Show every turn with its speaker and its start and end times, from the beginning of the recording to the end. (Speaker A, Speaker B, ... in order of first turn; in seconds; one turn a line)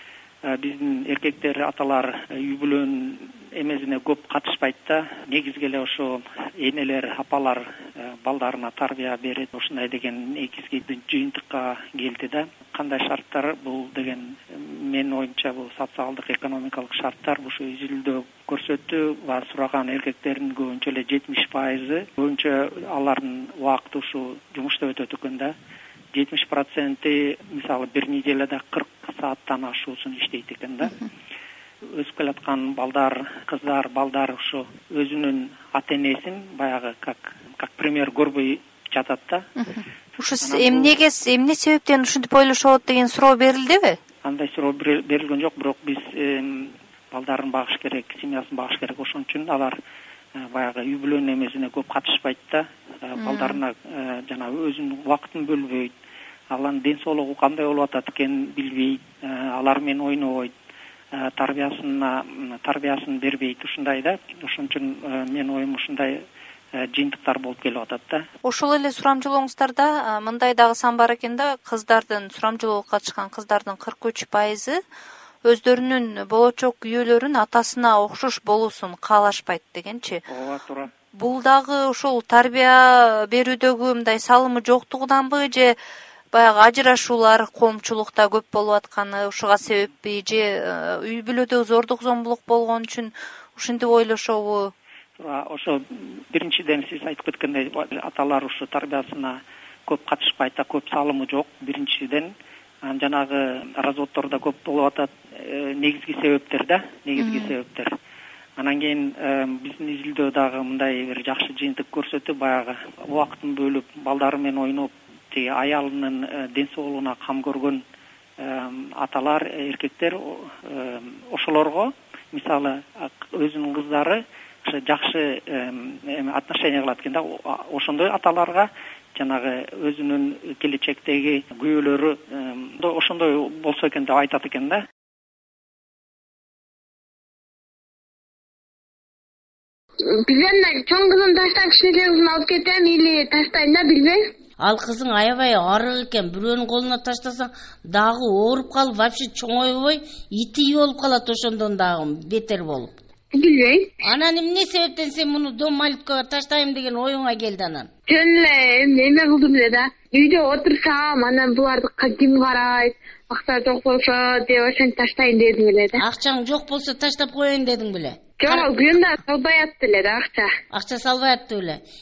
Speaker A: 0.5-25.5
Speaker A: 26.1-31.0
Speaker A: 31.9-39.5
Speaker B: 39.5-44.0
Speaker A: 40.4-41.0
Speaker A: 44.2-49.8
Speaker A: 50.4-55.9
Speaker B: 53.2-53.6
Speaker A: 56.5-60.5
Speaker A: 61.2-66.2
Speaker A: 66.8-68.2
Speaker B: 68.4-74.8
Speaker B: 75.5-80.2
Speaker A: 80.3-80.9
Speaker B: 81.1-85.8
Speaker B: 86.3-94.7
Speaker A: 95.2-102.3
Speaker A: 102.8-107.9
Speaker B: 107.2-107.5
Speaker A: 108.6-117.8
Speaker A: 118.4-134.8
Speaker C: 140.2-144.3
Speaker D: 144.6-152.9
Speaker C: 153.3-153.9
Speaker D: 154.0-157.9
Speaker C: 158.1-166.0
Speaker D: 166.0-168.7
Speaker C: 168.4-170.5
Speaker D: 170.7-171.8